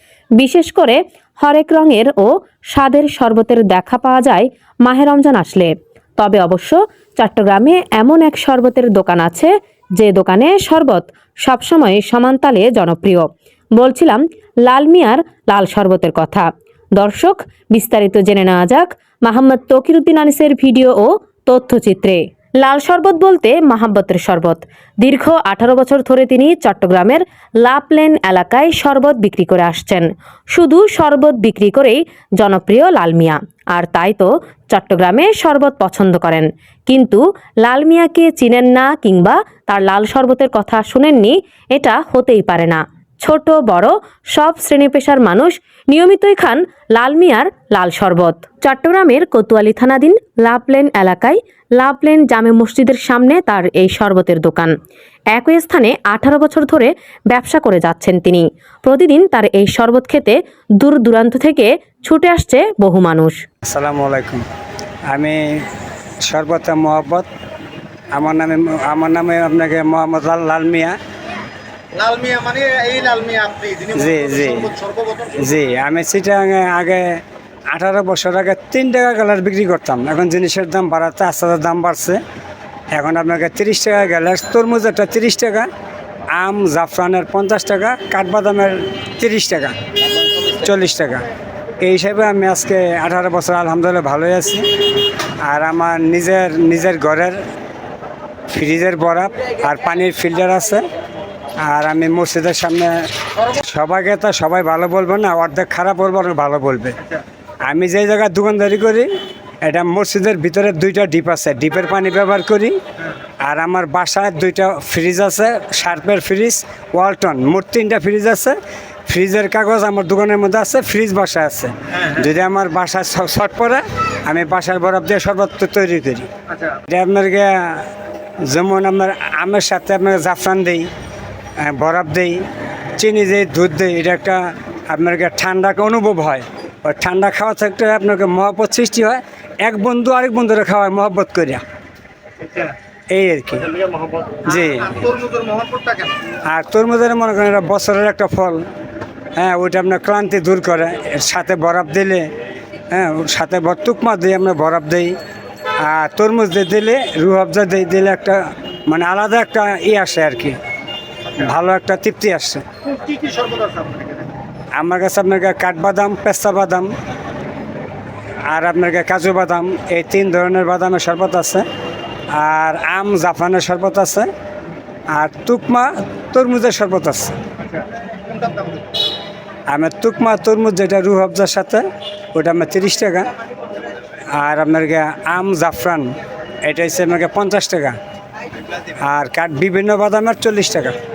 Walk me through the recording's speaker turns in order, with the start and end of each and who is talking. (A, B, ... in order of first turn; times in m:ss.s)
0:00.4-0:16.5 A
0:17.0-0:54.7 A
0:55.3-1:03.4 A
1:03.7-1:04.4 B
1:05.1-1:05.6 B
1:06.3-1:07.3 B
1:08.1-1:11.0 B
1:12.0-1:15.3 C
1:14.0-1:14.7 B
1:15.4-1:17.2 B
1:17.7-1:22.2 B
1:23.0-1:25.7 B
1:26.4-1:29.7 B
1:30.5-1:31.3 B
1:31.8-1:34.6 B
1:35.4-1:37.4 B
1:38.5-1:40.8 B
1:41.6-1:43.0 B
1:43.6-1:47.0 B
1:47.6-1:49.1 B
1:49.6-1:52.8 B
1:53.4-1:58.6 B
1:59.1-2:06.3 B
2:06.5-2:06.8 C
2:06.9-2:07.9 B
2:08.5-2:10.9 B
2:11.6-2:12.4 B
2:13.0-2:21.6 B
2:22.4-2:22.7 C
2:23.1-2:23.7 B
2:24.0-2:26.2 C
2:24.5-2:24.9 B
2:26.5-2:28.6 B
2:29.4-2:32.2 B
2:32.9-2:35.1 B
2:35.8-2:40.6 B
2:41.4-2:42.6 B
2:42.8-2:44.3 C
2:44.8-2:46.9 B
2:48.5-2:51.6 B
2:52.3-2:54.3 B
2:55.1-2:57.4 B
2:57.6-2:58.9 C
2:59.7-3:01.8 B
3:02.4-3:03.3 B
3:04.3-3:06.1 B
3:06.6-3:08.0 B
3:09.0-3:11.0 B